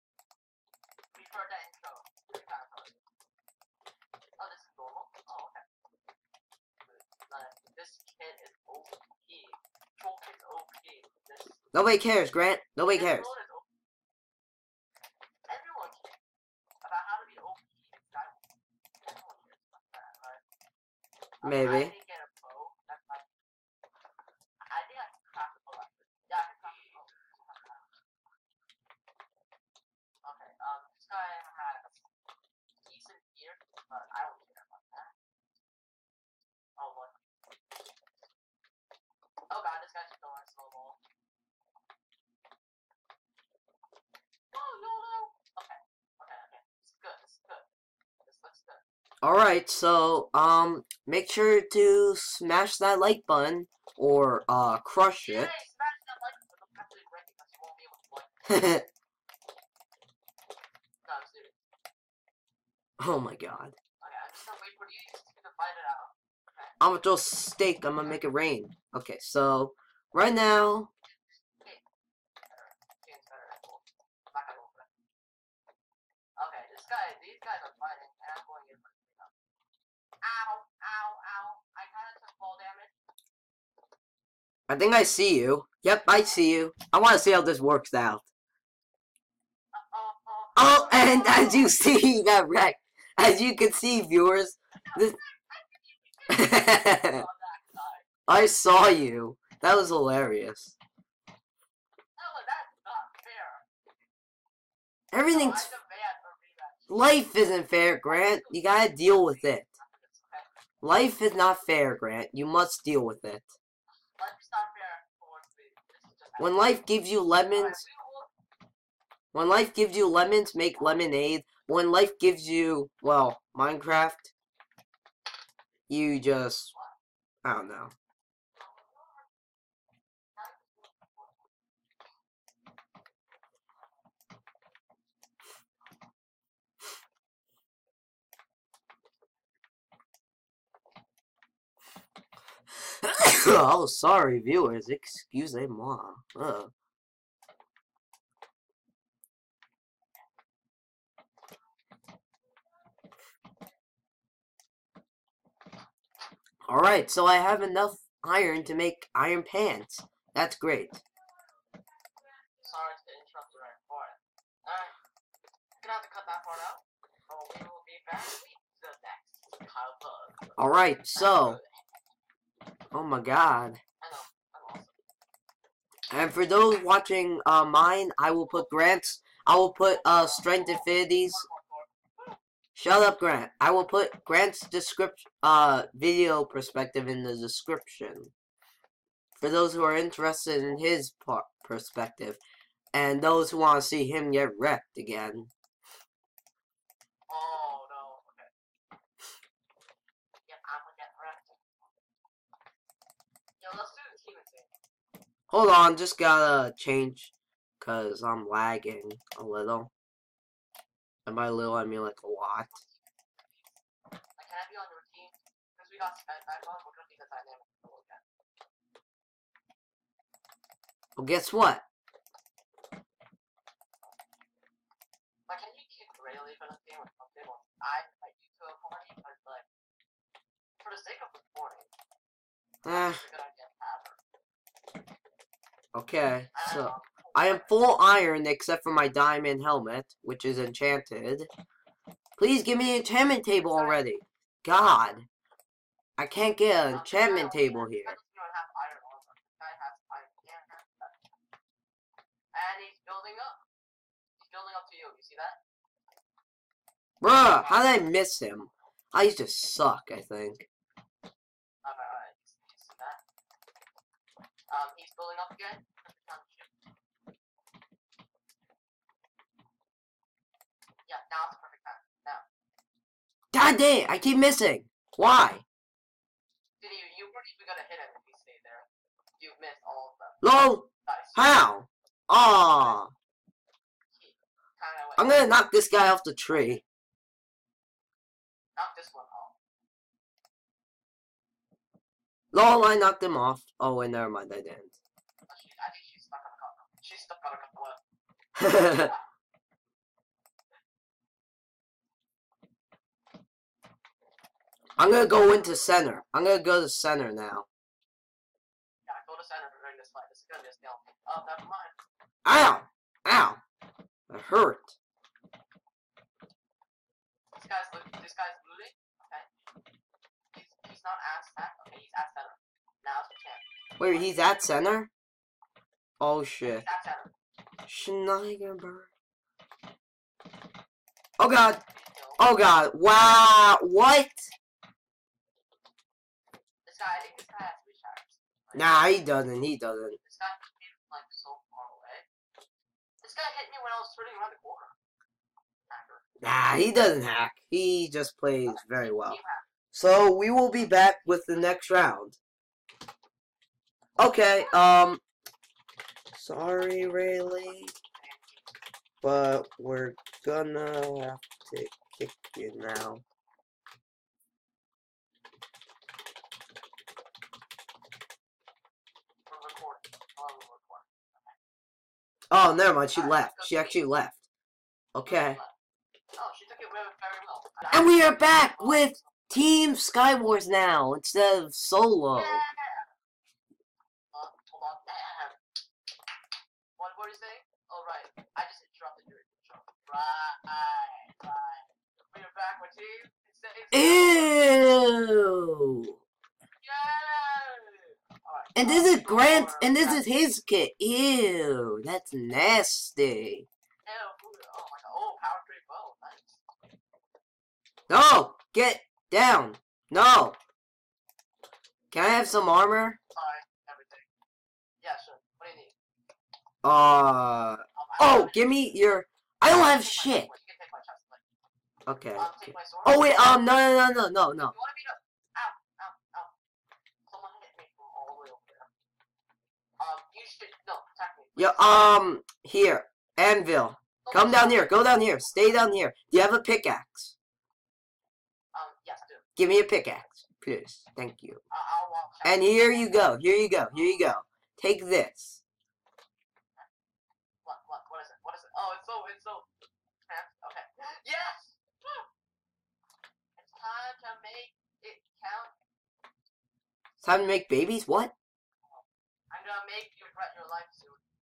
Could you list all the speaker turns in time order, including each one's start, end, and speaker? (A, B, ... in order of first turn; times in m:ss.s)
0:01.1-0:03.0 A
0:04.4-0:05.6 A
0:06.8-0:11.6 A
0:11.7-0:13.3 B
0:12.9-0:13.6 A
0:15.5-0:16.2 A
0:16.8-0:18.4 A
0:19.0-0:20.4 A
0:21.4-0:23.2 A
0:21.4-0:21.9 B
0:24.7-0:27.9 A
0:30.2-0:32.0 A
0:32.8-0:35.1 A
0:36.8-0:37.1 A
0:39.5-0:41.0 A
0:44.5-0:47.7 A
0:48.2-0:48.8 A
0:49.2-0:55.5 B
0:55.2-0:58.5 A
0:58.5-0:58.8 B
1:01.0-1:01.6 A
1:03.0-1:03.8 B
1:04.0-1:06.7 A
1:06.8-1:10.9 B
1:11.6-1:11.8 A
1:12.5-1:14.9 A
1:16.4-1:19.3 A
1:20.2-1:22.9 A
1:24.7-1:28.2 B
1:26.1-1:26.4 A
1:29.7-1:31.7 A
1:30.6-1:35.2 B
1:34.9-1:38.0 A
1:36.3-1:37.2 B
1:38.3-1:40.7 B
1:42.2-1:43.6 A
1:45.1-1:45.7 B
1:45.3-1:46.9 A
1:46.9-1:49.6 B
1:48.0-1:50.5 A
1:50.8-1:53.5 B
1:54.2-1:56.8 A
1:56.4-1:57.8 B
1:57.5-1:58.3 A
1:59.3-2:04.3 B
2:05.9-2:06.7 B
2:07.4-2:07.9 B
2:10.4-2:11.3 A
2:23.0-2:26.7 B
2:36.7-2:41.0 B
2:42.6-2:44.9 A
2:45.8-2:50.6 A
2:50.6-2:51.6 B
2:51.1-2:51.8 A
2:52.9-2:53.8 B
2:54.0-2:54.9 A
2:56.1-3:01.4 B
2:58.5-2:59.0 A
2:59.8-3:02.4 A
3:02.8-3:08.3 B
3:09.4-3:12.4 B
3:12.9-3:15.5 B
3:17.3-3:18.5 A
3:20.5-3:21.6 A
3:23.6-3:24.7 A
3:25.5-3:29.9 B
3:31.2-3:32.8 B
3:32.7-3:33.8 A
3:34.4-3:38.2 A
3:41.2-3:41.8 B
3:45.5-3:49.6 A
3:50.8-3:51.9 A
3:52.8-3:53.2 B
3:52.8-3:54.2 A
3:55.9-4:01.5 B
3:56.5-3:57.7 A
4:02.4-4:05.2 B
4:03.6-4:04.0 A
4:06.2-4:08.2 B
4:06.9-4:11.1 A
4:12.5-4:13.6 A
4:14.4-4:15.6 A
4:17.2-4:20.6 B
4:17.6-4:17.8 A
4:21.8-4:23.2 A
4:24.7-4:26.7 A
4:31.1-4:32.4 A
4:33.5-4:35.6 B
4:36.8-4:38.9 A
4:39.4-4:40.4 A
4:40.4-4:43.1 B
4:41.0-4:41.5 A
4:42.6-4:43.0 A
4:44.1-4:45.5 A
4:45.2-4:46.8 B
4:46.5-4:46.8 A
4:48.8-4:49.5 A
4:52.5-4:55.0 B
4:55.5-4:58.0 A
4:58.6-4:59.1 B
4:58.9-4:59.2 A
5:05.0-5:07.6 B
5:09.0-5:11.9 A
5:12.4-5:13.6 B
5:14.3-5:14.9 B
5:17.5-5:19.5 A
5:20.5-5:24.5 A
5:24.0-5:25.1 B
5:26.2-5:26.8 B
5:26.6-5:27.3 A
5:27.9-5:29.1 B
5:31.4-5:31.8 B
5:31.9-5:32.4 A
5:32.4-5:34.5 B
5:36.8-5:39.1 A
5:38.7-5:40.2 B
5:40.2-5:42.2 A
5:43.2-5:44.9 A
5:45.9-5:46.2 A
5:46.4-5:49.4 B
5:48.7-5:49.7 A
5:49.9-5:52.4 B
5:54.2-5:55.2 B
5:56.3-5:57.9 B
5:58.1-5:58.6 A
5:59.2-6:03.2 B
6:09.5-6:11.6 A
6:12.5-6:14.4 B
6:13.1-6:14.1 A
6:15.1-6:15.6 B
6:15.2-6:15.7 A
6:16.4-6:19.3 A
6:17.9-6:22.6 B
6:22.3-6:23.1 A
6:24.3-6:25.6 A
6:27.0-6:34.5 A
6:33.9-6:36.2 B
6:36.8-6:40.2 A
6:38.8-6:43.7 B
6:44.0-6:46.6 A
6:48.1-6:50.6 B
6:52.1-6:53.2 B
6:53.3-6:54.2 A
6:55.0-6:55.9 A
6:56.8-7:00.5 B
6:57.9-6:58.8 A
6:59.6-7:01.4 A
7:02.1-7:02.5 B
7:02.4-7:03.6 A
7:03.0-7:04.7 B
7:04.6-7:06.5 A
7:07.3-7:08.9 A
7:10.0-7:12.0 A
7:11.6-7:17.3 B
7:14.2-7:15.8 A
7:18.7-7:19.4 A
7:19.6-7:21.6 B
7:21.7-7:23.4 A
7:22.4-7:25.6 B
7:23.9-7:24.2 A
7:27.6-7:29.7 A
7:30.3-7:32.2 A
7:33.6-7:35.7 A
7:37.2-7:38.3 B
7:38.9-7:41.2 A